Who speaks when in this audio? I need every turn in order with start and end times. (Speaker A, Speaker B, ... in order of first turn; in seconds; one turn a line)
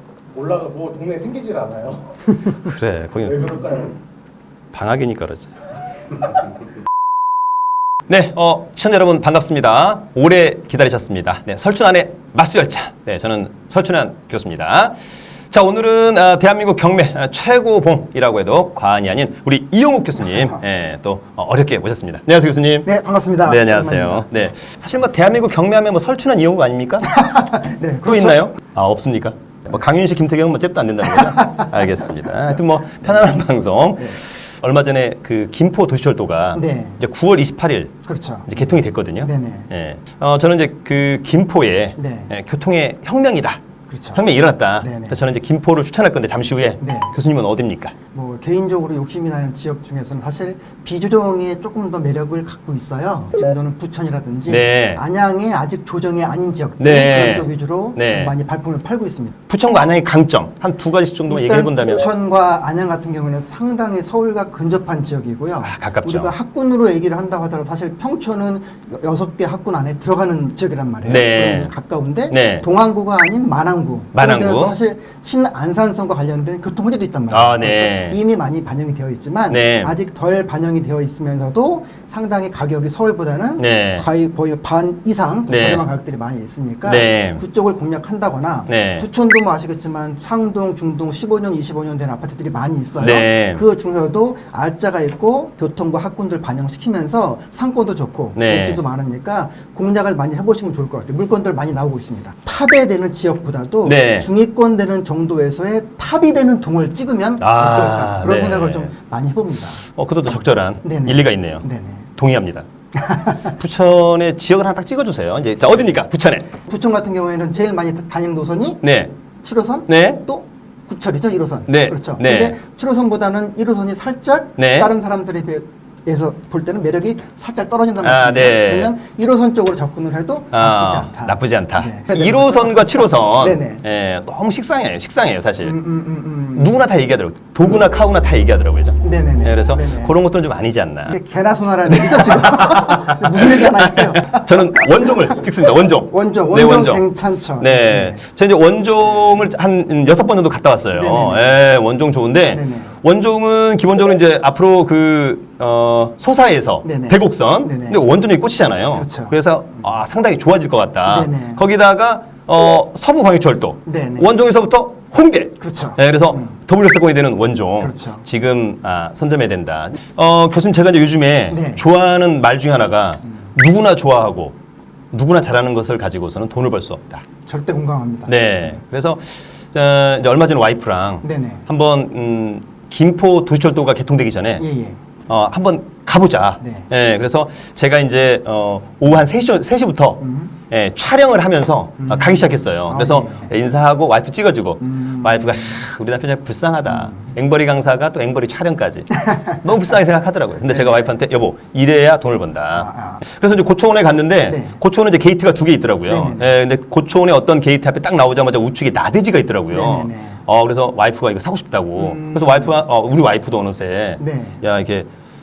Speaker A: 0.3-2.4
Speaker B: 2.5-3.6
Speaker A: 3.4-4.0
Speaker B: 4.7-5.7
Speaker B: 8.1-14.9
Speaker B: 15.5-22.9
Speaker C: 22.8-24.3
Speaker B: 23.4-27.1
Speaker C: 27.0-28.6
Speaker B: 28.0-38.0
Speaker C: 31.2-31.6
Speaker C: 36.5-37.0
Speaker C: 38.0-39.7
Speaker B: 38.5-43.6
Speaker C: 42.0-42.3
Speaker C: 43.9-44.2
Speaker B: 44.1-47.9
Speaker C: 44.8-45.2
Speaker C: 46.8-47.1
Speaker C: 48.1-59.4
Speaker B: 54.5-55.0
Speaker B: 56.8-58.3
Speaker B: 59.5-62.0
Speaker C: 61.3-112.0
Speaker B: 65.6-66.3
Speaker B: 71.0-71.7
Speaker B: 72.3-72.6
Speaker B: 74.1-74.7
Speaker B: 77.3-78.2
Speaker B: 79.5-79.9
Speaker B: 83.6-84.0
Speaker B: 85.5-85.8
Speaker B: 86.8-87.4
Speaker B: 88.7-89.0
Speaker B: 93.0-93.6
Speaker B: 98.3-98.8
Speaker B: 103.8-104.3
Speaker B: 107.4-108.9
Speaker B: 110.0-111.6
Speaker B: 112.2-112.7
Speaker C: 112.9-113.6
Speaker B: 113.5-116.5
Speaker C: 116.6-118.8
Speaker B: 118.8-119.1
Speaker C: 119.4-133.8
Speaker B: 119.9-120.2
Speaker B: 121.7-122.6
Speaker B: 124.6-124.9
Speaker B: 128.0-128.9
Speaker B: 130.5-135.8
Speaker C: 135.6-136.7
Speaker B: 136.5-141.2
Speaker C: 139.0-140.1
Speaker C: 141.1-148.2
Speaker B: 141.9-174.6
Speaker C: 150.9-151.6
Speaker C: 152.5-152.9
Speaker C: 156.8-158.0
Speaker C: 158.9-159.3
Speaker C: 161.1-161.6
Speaker C: 163.8-164.3
Speaker C: 165.6-166.6
Speaker C: 167.8-168.2
Speaker C: 171.5-171.8
Speaker B: 175.1-177.2
Speaker C: 177.4-178.3
Speaker B: 178.2-184.6
Speaker C: 181.2-181.6
Speaker C: 184.6-185.0
Speaker B: 185.3-215.1
Speaker C: 186.6-186.9
Speaker C: 190.2-190.5
Speaker C: 192.0-193.5
Speaker C: 194.8-195.8
Speaker C: 199.1-199.5
Speaker C: 200.7-201.1
Speaker C: 202.7-203.2
Speaker C: 204.4-204.8
Speaker C: 206.1-206.5
Speaker C: 209.7-210.4
Speaker C: 211.9-212.8
Speaker C: 214.2-214.6